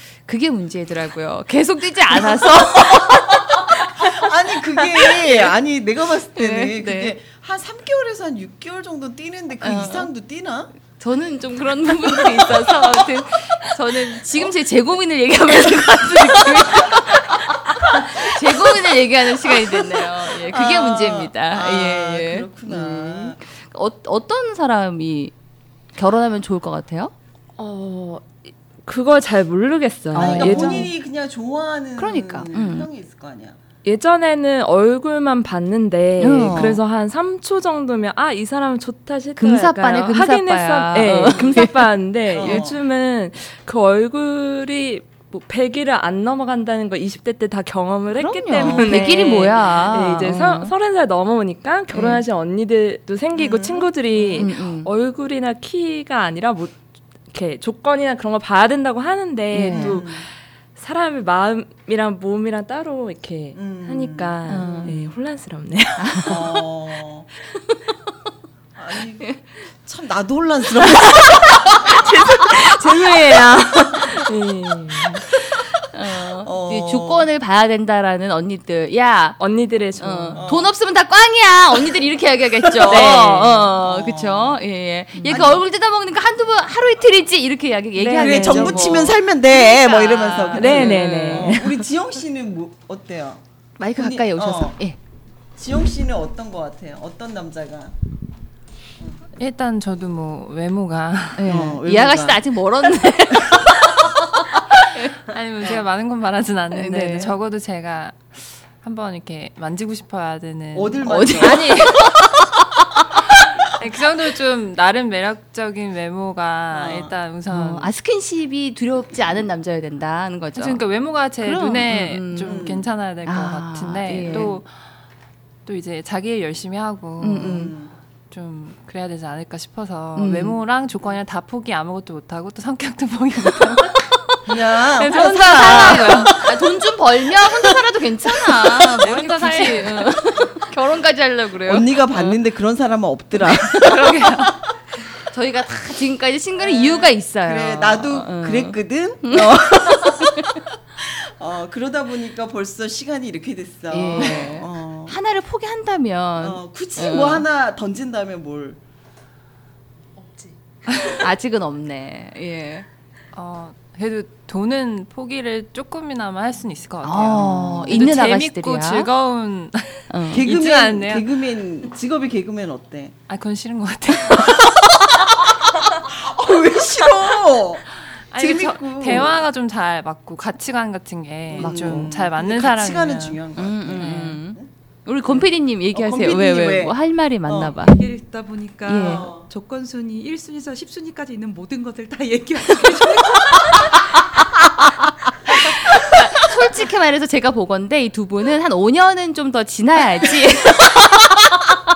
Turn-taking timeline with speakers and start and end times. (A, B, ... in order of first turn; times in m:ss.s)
0:00.3-0:04.0 A
0:02.1-0:10.7 B
0:06.4-0:07.2 A
0:09.6-0:10.1 A
0:11.0-0:25.3 A
0:12.0-0:13.1 B
0:16.2-0:17.2 B
0:17.9-0:18.8 B
0:19.4-0:23.4 B
0:26.0-0:27.1 A
0:27.6-0:30.9 C
0:30.1-0:30.9 A
0:30.2-0:33.6 B
0:32.0-0:32.9 A
0:33.8-1:06.5 C
0:36.2-0:36.8 A
0:39.4-0:41.9 A
0:42.3-0:42.8 B
0:48.1-0:50.7 A
0:48.6-0:49.0 B
0:51.9-0:52.2 A
0:53.4-0:54.5 B
0:54.4-0:54.9 A
0:59.5-1:00.0 A
0:59.7-1:00.2 B
1:03.6-1:05.1 B
1:04.5-1:05.1 A
1:06.0-1:06.5 A
1:06.2-1:07.3 B
1:08.8-1:11.9 B
1:11.1-1:15.2 C
1:15.9-1:19.4 A
1:16.4-1:17.3 B
1:19.4-1:20.4 C
1:20.0-1:31.6 A
1:20.4-1:20.7 B
1:22.6-1:24.6 B
1:22.8-1:23.7 C
1:25.2-1:25.6 B
1:28.0-1:29.0 C
1:28.2-1:33.4 B
1:30.6-1:31.8 C
1:33.8-1:35.0 A
1:34.0-1:34.8 B
1:35.6-1:38.0 B
1:39.4-1:41.6 D
1:41.4-1:45.2 A
1:41.5-1:42.4 B
1:45.3-1:52.0 D
1:46.7-1:47.3 A
1:50.7-1:51.8 B
1:51.1-1:53.5 A
1:53.6-1:57.9 D
1:56.7-1:57.1 B
1:57.5-2:00.8 A
2:00.6-2:04.7 D
2:01.4-2:02.6 A
2:02.4-2:02.9 B
2:03.2-2:04.6 A
2:04.3-2:04.5 B
2:05.7-2:07.6 D
2:07.2-2:07.7 A
2:07.3-2:07.9 B
2:08.3-2:14.0 D
2:10.2-2:10.6 A
2:14.5-2:16.6 B
2:15.0-2:16.4 D
2:15.0-2:22.4 A
2:17.4-2:17.8 B
2:18.3-2:18.8 B
2:18.8-2:20.1 D
2:21.6-2:24.5 B
2:23.5-2:24.5 A
2:25.3-2:30.5 A
2:26.6-2:35.2 B
2:33.9-2:37.5 A
2:36.4-2:38.8 B
2:41.1-2:42.9 A
2:43.3-2:51.3 D
2:47.0-2:49.1 A
2:47.4-2:48.0 B
2:50.1-2:50.5 A
2:50.3-2:53.1 B
2:53.3-2:54.8 D
2:54.4-2:59.4 B
2:58.3-3:03.4 D
3:01.5-3:04.7 B
3:01.6-3:02.1 A
3:03.6-3:08.0 A
3:05.2-3:07.9 B
3:07.9-3:14.1 E
3:08.8-3:09.3 A
3:09.0-3:09.5 B
3:13.5-3:14.0 A
3:15.5-3:21.8 A